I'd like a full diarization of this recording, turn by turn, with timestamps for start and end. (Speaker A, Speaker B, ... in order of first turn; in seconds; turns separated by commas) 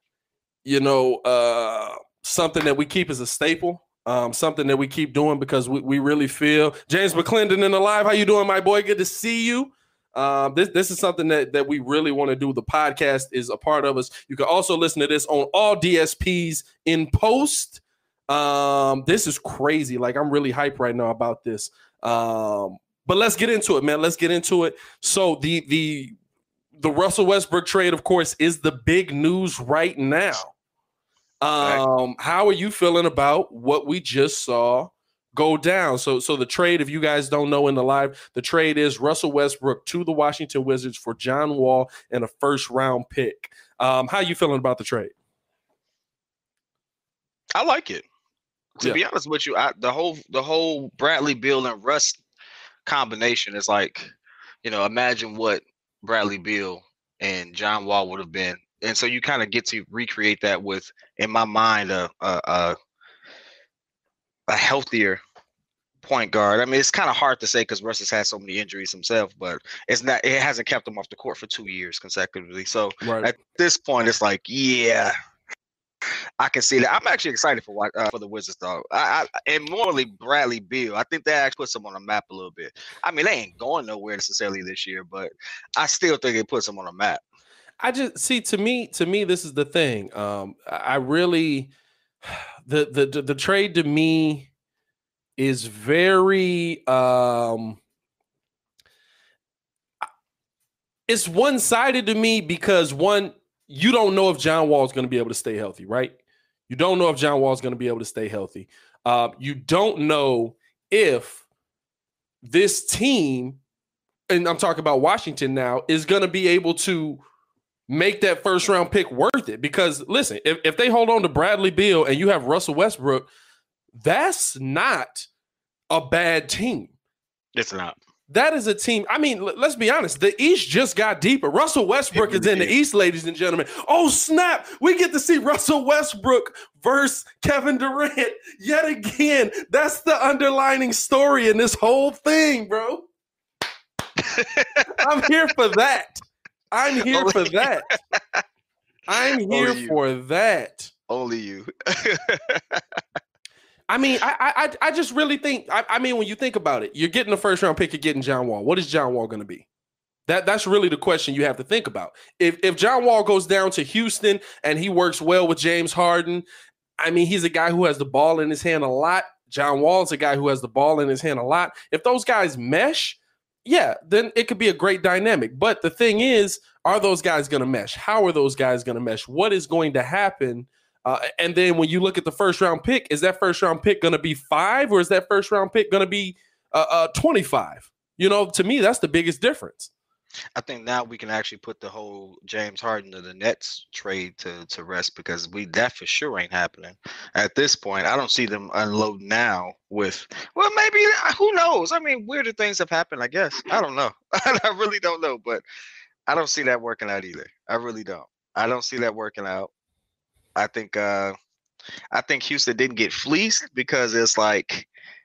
Speaker A: 0.6-26.1, Speaker A: 26.8-30.5, Speaker A: 31.4-45.1, Speaker B: 47.5-48.0, Speaker B: 48.8-52.2, Speaker B: 52.8-54.1, Speaker B: 54.6-62.7, Speaker B: 64.5-65.2, Speaker B: 66.0-75.1, Speaker A: 73.0-73.3, Speaker B: 76.4-87.2, Speaker A: 87.8-91.7, Speaker A: 92.2-94.5, Speaker A: 95.4-97.8, Speaker A: 101.1-106.1, Speaker A: 106.7-111.4, Speaker A: 112.4-113.6, Speaker A: 114.3-117.2, Speaker A: 117.9-123.3, Speaker A: 124.0-125.3, Speaker A: 125.9-126.9, Speaker B: 127.5-128.0, Speaker A: 128.3-143.1, Speaker B: 132.1-132.7, Speaker B: 144.2-144.9, Speaker A: 144.9-147.9, Speaker B: 147.1-148.4, Speaker A: 149.1-150.9, Speaker B: 149.4-150.0, Speaker B: 151.1-153.0, Speaker A: 153.9-159.7, Speaker A: 160.3-166.4, Speaker A: 167.0-189.9, Speaker B: 190.6-205.6, Speaker B: 206.3-209.7, Speaker B: 210.6-211.3, Speaker B: 212.1-214.9